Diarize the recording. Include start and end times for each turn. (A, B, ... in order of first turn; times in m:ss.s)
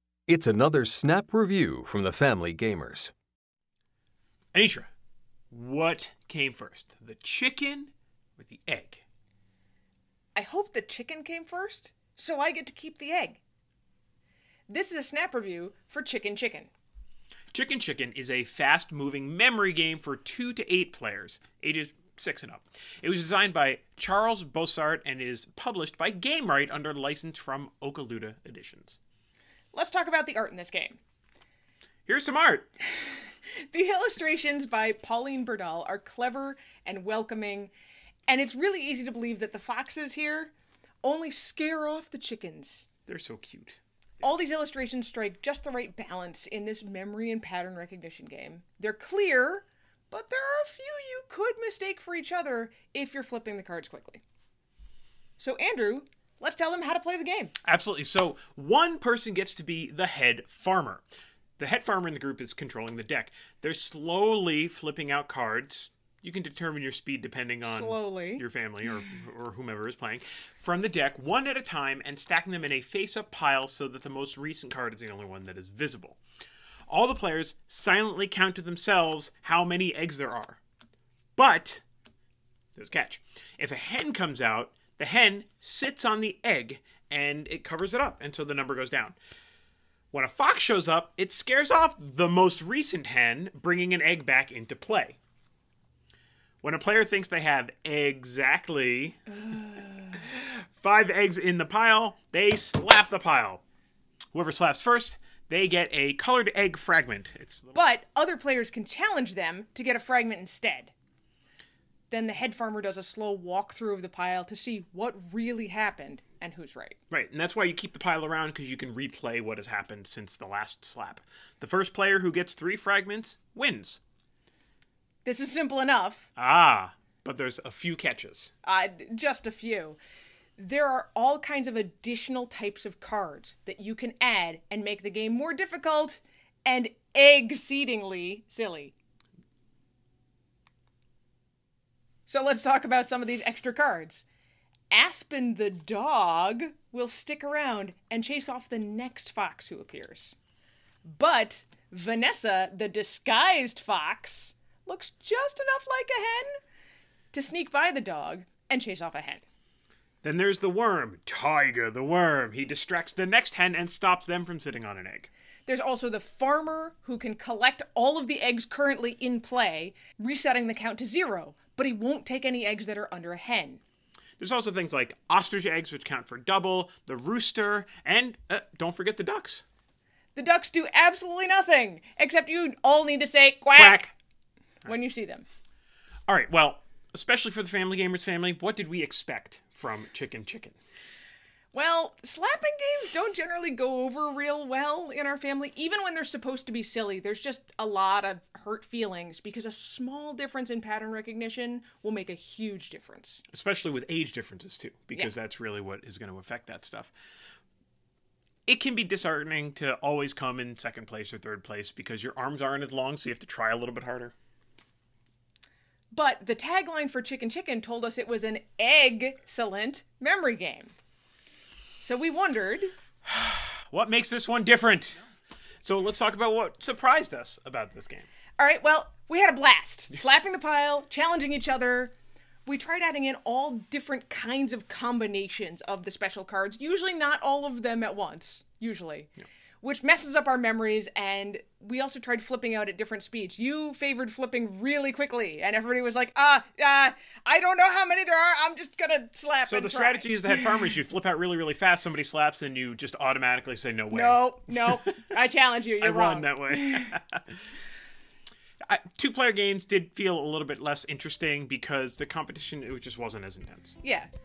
0:00.3-0:03.1 A
0:04.5-0:04.9 B
0:05.5-0:09.0 B
0:10.3-0:13.4 C
0:14.7-0:16.7 C
0:17.5-0:29.0 B
0:29.7-0:31.0 C
0:32.0-0:32.7 B
0:33.7-0:37.7 C
0:38.3-0:42.9 C
0:43.1-0:43.8 B
0:44.2-0:54.2 C
0:55.4-0:57.5 C
0:57.6-1:01.0 B
1:01.6-1:16.2 B
1:07.6-1:08.4 C
1:16.9-1:20.6 B
1:21.4-1:21.8 B
1:22.8-1:29.2 B
1:30.1-1:35.2 B
1:36.6-1:39.3 B
1:40.1-1:43.6 B
1:44.3-1:47.7 B
1:47.7-1:50.9 C
1:52.1-1:57.0 C
1:57.1-2:04.0 B
2:05.2-2:06.3 C
2:06.4-2:08.5 B
2:08.6-2:10.0 C
2:10.6-2:18.9 C
2:22.2-2:24.2 C
2:24.9-2:30.3 C
2:31.0-2:36.5 C
2:37.3-2:39.4 C
2:40.2-2:45.3 B
2:45.6-2:53.8 C
2:54.4-2:59.6 B
3:00.3-3:04.1 C
3:03.7-3:04.1 B
3:04.8-3:05.4 C
3:06.3-3:10.7 B
3:11.7-3:23.4 C
3:23.5-3:27.1 B
3:28.7-3:34.3 B
3:36.1-3:40.9 C
3:42.0-3:42.9 C
3:43.2-3:45.2 B
3:45.8-3:48.3 B
3:48.6-3:52.1 C
3:52.6-4:10.6 C
4:09.7-4:15.0 B
4:14.1-4:17.1 C
4:16.0-4:17.5 B
4:18.8-4:24.0 B
4:24.0-4:24.3 C